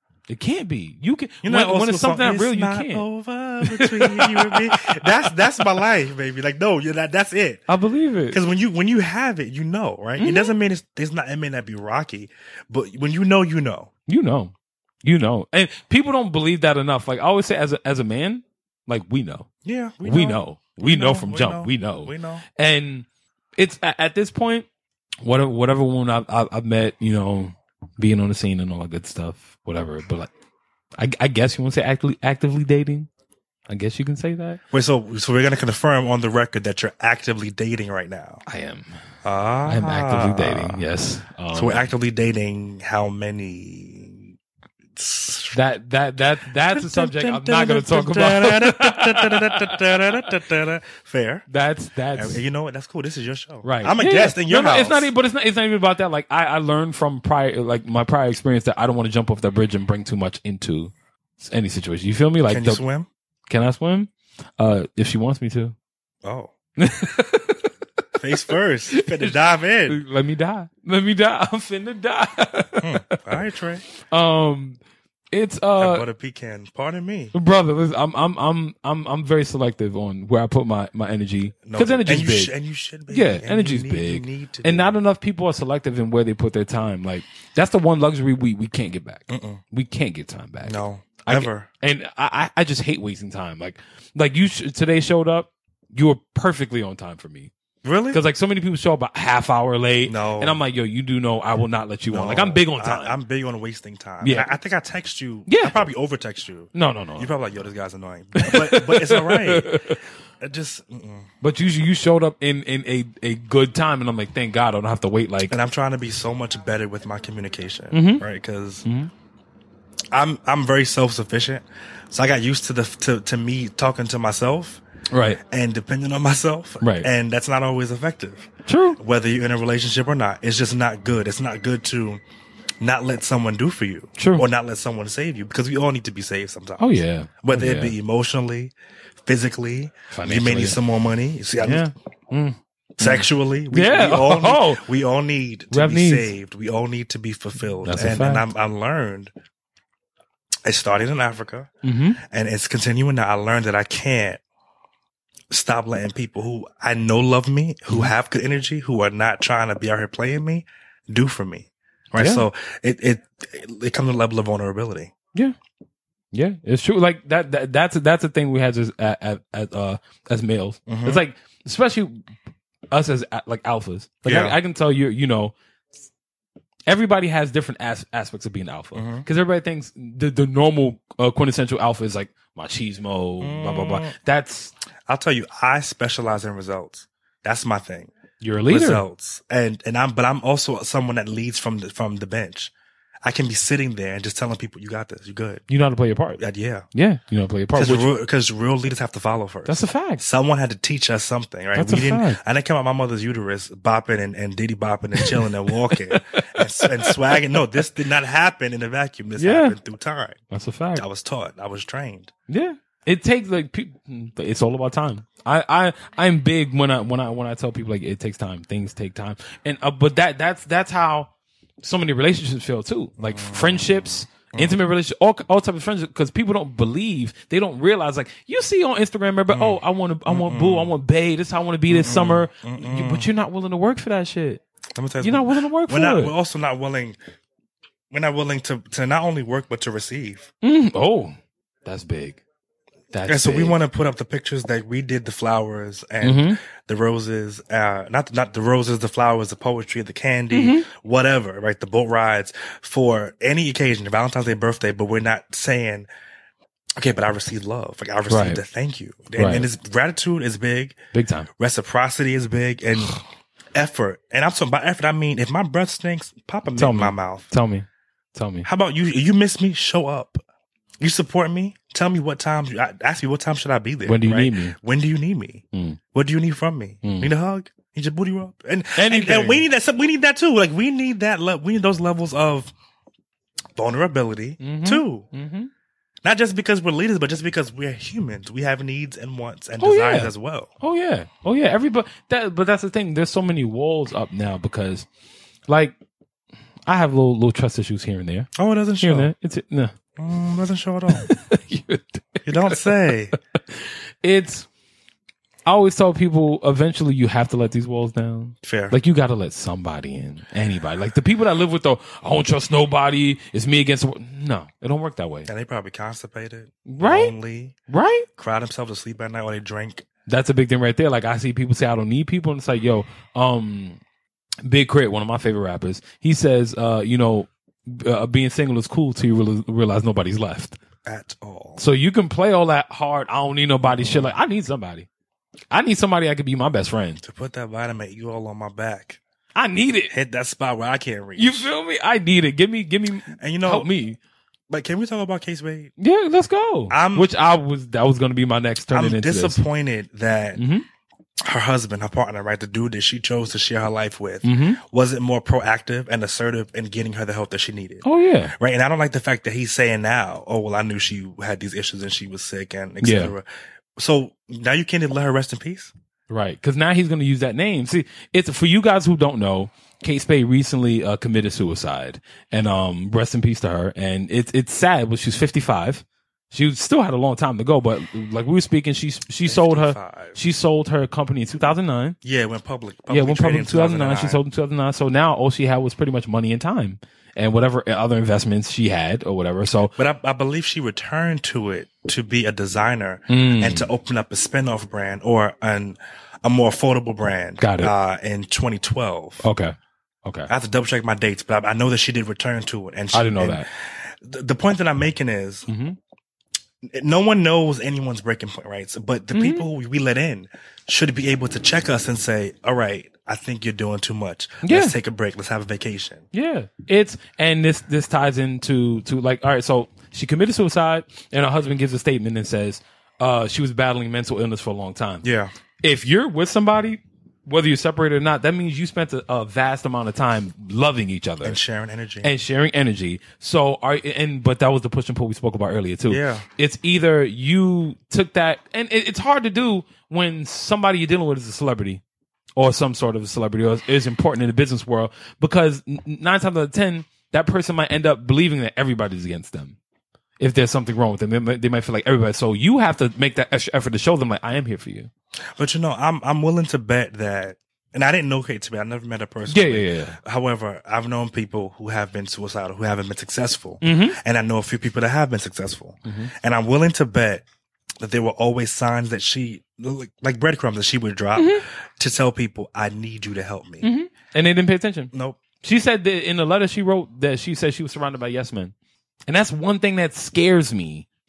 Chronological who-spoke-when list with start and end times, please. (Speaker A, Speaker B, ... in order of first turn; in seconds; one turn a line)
Speaker A: 0.3-3.1
Speaker B: 1.4-7.7
Speaker A: 3.6-5.7
Speaker A: 7.7-8.4
Speaker B: 8.3-13.9
Speaker A: 10.2-10.5
Speaker A: 14.1-14.5
Speaker A: 15.0-19.5
Speaker B: 19.6-22.4
Speaker A: 20.0-23.1
Speaker A: 23.6-24.7
Speaker A: 25.2-30.3
Speaker A: 31.0-33.1
Speaker A: 33.7-34.6
Speaker B: 34.7-38.4
Speaker A: 38.5-38.9
Speaker B: 39.2-40.8
Speaker A: 39.7-41.9
Speaker B: 41.5-44.3
Speaker B: 45.0-45.6
Speaker A: 45.5-50.2
Speaker B: 46.5-51.5
Speaker A: 51.5-52.4
Speaker B: 52.1-55.1
Speaker A: 53.6-62.8
Speaker B: 62.5-63.1
Speaker A: 63.5-65.8
Speaker B: 66.2-66.5
Speaker A: 66.8-67.7
Speaker B: 68.2-70.0
Speaker A: 68.9-69.3
Speaker A: 69.9-73.4
Speaker B: 72.8-73.8
Speaker A: 74.0-74.8
Speaker A: 75.3-76.1
Speaker B: 75.8-77.3
Speaker A: 77.3-82.5
Speaker B: 81.7-85.0
Speaker A: 83.1-97.5
Speaker B: 89.3-89.6
Speaker B: 90.6-91.7
Speaker B: 97.8-98.2
Speaker A: 98.1-103.2
Speaker B: 100.1-100.6
Speaker B: 102.1-111.3
Speaker A: 104.2-104.5
Speaker A: 105.5-105.8
Speaker A: 106.7-107.3
Speaker A: 108.4-110.0
Speaker A: 111.4-115.6
Speaker B: 115.5-118.8
Speaker A: 117.9-118.2
Speaker A: 118.8-119.1
Speaker B: 120.1-124.8
Speaker A: 125.1-125.4
Speaker B: 125.4-132.2
Speaker A: 126.8-127.1
Speaker A: 128.7-129.0
Speaker B: 132.8-138.7
Speaker A: 134.2-134.4
Speaker A: 136.8-137.9
Speaker B: 139.2-141.9
Speaker A: 140.1-140.8
Speaker A: 141.6-144.8
Speaker B: 143.0-149.3
Speaker A: 145.7-146.3
Speaker A: 147.8-148.5
Speaker B: 150.7-154.4
Speaker A: 151.8-152.2
Speaker B: 155.5-165.1
Speaker A: 162.2-162.5
Speaker A: 166.3-172.3
Speaker B: 170.9-171.2
Speaker A: 172.9-175.6
Speaker B: 174.2-174.6
Speaker A: 176.9-184.7
Speaker B: 178.9-179.3
Speaker B: 183.4-184.2
Speaker B: 185.1-188.1
Speaker A: 188.4-189.0
Speaker B: 188.7-192.7
Speaker B: 193.2-195.6
Speaker A: 195.7-196.4
Speaker B: 196.4-196.9
Speaker A: 196.9-198.1
Speaker B: 197.8-210.4
Speaker A: 199.7-200.2
Speaker A: 201.8-202.4
Speaker A: 205.2-207.8
Speaker A: 209.4-209.8
Speaker A: 210.5-211.0
Speaker B: 210.9-212.3
Speaker A: 212.5-221.3
Speaker A: 221.8-234.6
Speaker B: 223.2-224.8
Speaker B: 229.5-230.9
Speaker B: 231.9-233.3
Speaker B: 234.9-237.2
Speaker A: 235.2-236.3
Speaker B: 238.1-240.5
Speaker A: 240.6-242.4
Speaker A: 243.1-243.8
Speaker B: 243.3-256.1
Speaker A: 246.2-246.6
Speaker A: 250.5-250.9
Speaker B: 257.0-261.0
Speaker A: 258.3-258.6
Speaker A: 259.4-259.7
Speaker A: 261.1-261.5
Speaker B: 261.6-263.2
Speaker B: 263.8-267.5
Speaker A: 266.8-268.7
Speaker B: 268.6-270.4
Speaker B: 271.0-282.7
Speaker A: 274.1-274.8
Speaker A: 275.7-276.0
Speaker A: 277.0-277.3
Speaker A: 279.0-279.6
Speaker B: 283.8-285.3
Speaker A: 284.6-285.7
Speaker B: 286.2-290.7
Speaker A: 289.8-295.1
Speaker A: 295.7-296.0
Speaker A: 296.9-299.9
Speaker B: 298.6-299.3
Speaker B: 300.2-301.3
Speaker A: 301.1-304.7
Speaker B: 302.4-303.4
Speaker A: 305.7-315.5
Speaker B: 308.6-309.0
Speaker B: 315.5-317.8
Speaker A: 316.9-317.3
Speaker A: 317.9-318.3
Speaker B: 318.4-320.1
Speaker A: 320.3-324.0
Speaker A: 324.6-330.8
Speaker B: 331.1-331.8
Speaker A: 331.8-335.1
Speaker B: 333.9-334.4
Speaker A: 335.7-337.2
Speaker B: 337.2-339.2
Speaker A: 339.6-340.1
Speaker B: 340.1-341.7
Speaker A: 341.4-344.2
Speaker B: 343.4-343.9
Speaker B: 344.7-345.9
Speaker A: 346.0-349.6
Speaker B: 346.9-347.3
Speaker B: 348.9-350.6
Speaker A: 350.6-350.9
Speaker B: 351.4-365.9
Speaker A: 354.4-354.8
Speaker A: 358.0-358.5
Speaker A: 363.0-363.3
Speaker A: 366.3-382.2
Speaker B: 379.4-380.4
Speaker B: 382.2-384.4
Speaker A: 383.1-389.9
Speaker B: 389.9-399.5
Speaker A: 393.3-393.9
Speaker A: 397.6-397.9
Speaker A: 399.4-400.5
Speaker B: 400.5-405.7
Speaker A: 403.1-403.7
Speaker A: 405.7-406.0
Speaker B: 406.8-416.2
Speaker A: 409.3-409.7
Speaker A: 414.6-414.9
Speaker A: 416.3-425.2
Speaker B: 425.2-425.5
Speaker A: 425.8-431.6
Speaker B: 431.4-432.3
Speaker A: 432.2-442.0
Speaker B: 436.1-436.5
Speaker A: 442.6-449.8
Speaker A: 450.4-455.1
Speaker B: 455.6-467.4
Speaker A: 459.5-460.2
Speaker A: 463.8-464.2
Speaker A: 466.1-466.3
Speaker B: 468.0-473.9
Speaker A: 471.4-471.6
Speaker A: 473.8-478.7
Speaker B: 475.1-475.4
Speaker A: 479.3-481.1